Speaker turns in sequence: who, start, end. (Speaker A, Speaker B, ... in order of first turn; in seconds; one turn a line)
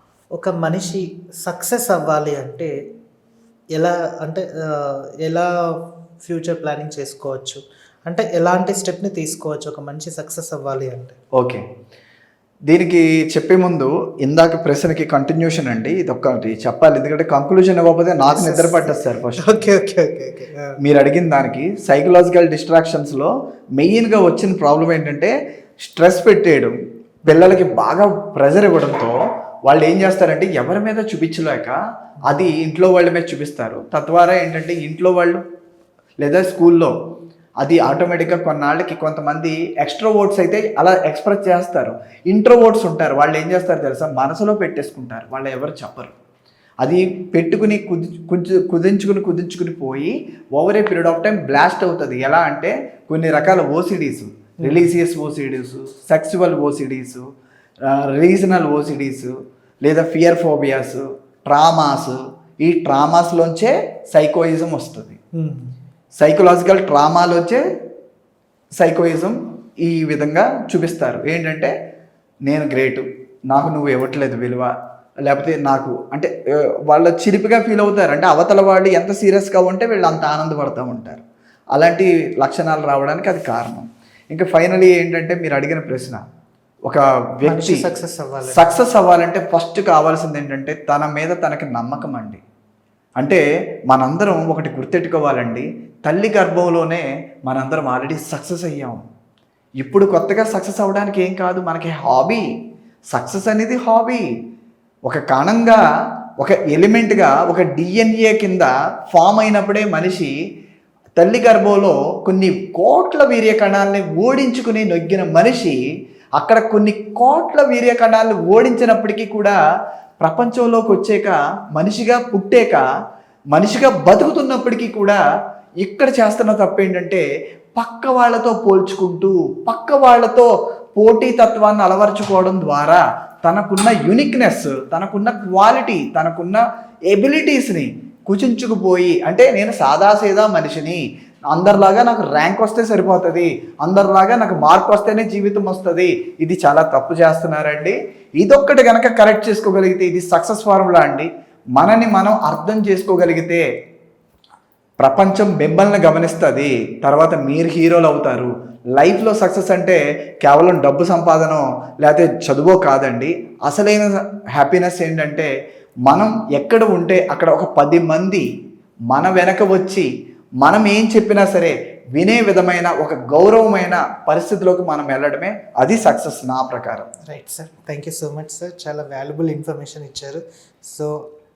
Speaker A: 0.4-2.7
Speaker A: 3.8-5.5
Speaker A: 6.3-11.2
Speaker B: 11.4-11.6
Speaker B: 12.7-19.6
Speaker A: 18.3-20.8
Speaker B: 20.8-35.4
Speaker A: 27.3-27.6
Speaker B: 36.2-36.9
Speaker B: 37.6-46.1
Speaker B: 46.8-57.2
Speaker A: 54.6-54.9
Speaker B: 57.9-65.2
Speaker A: 65.3-65.7
Speaker B: 66.2-67.6
Speaker B: 68.8-71.7
Speaker B: 72.5-74.7
Speaker B: 75.2-81.2
Speaker B: 81.8-86.2
Speaker B: 86.9-87.8
Speaker A: 87.5-88.8
Speaker B: 88.5-92.4
Speaker B: 93.2-99.0
Speaker B: 99.8-102.5
Speaker B: 103.1-104.3
Speaker B: 105.1-105.8
Speaker B: 106.4-110.3
Speaker B: 111.2-115.8
Speaker B: 116.4-119.6
Speaker B: 120.2-122.8
Speaker B: 123.5-125.2
Speaker B: 125.8-127.2
Speaker B: 127.8-153.6
Speaker B: 155.0-165.5
Speaker B: 166.1-168.5
Speaker B: 169.1-170.1
Speaker B: 170.6-177.1
Speaker A: 177.3-181.2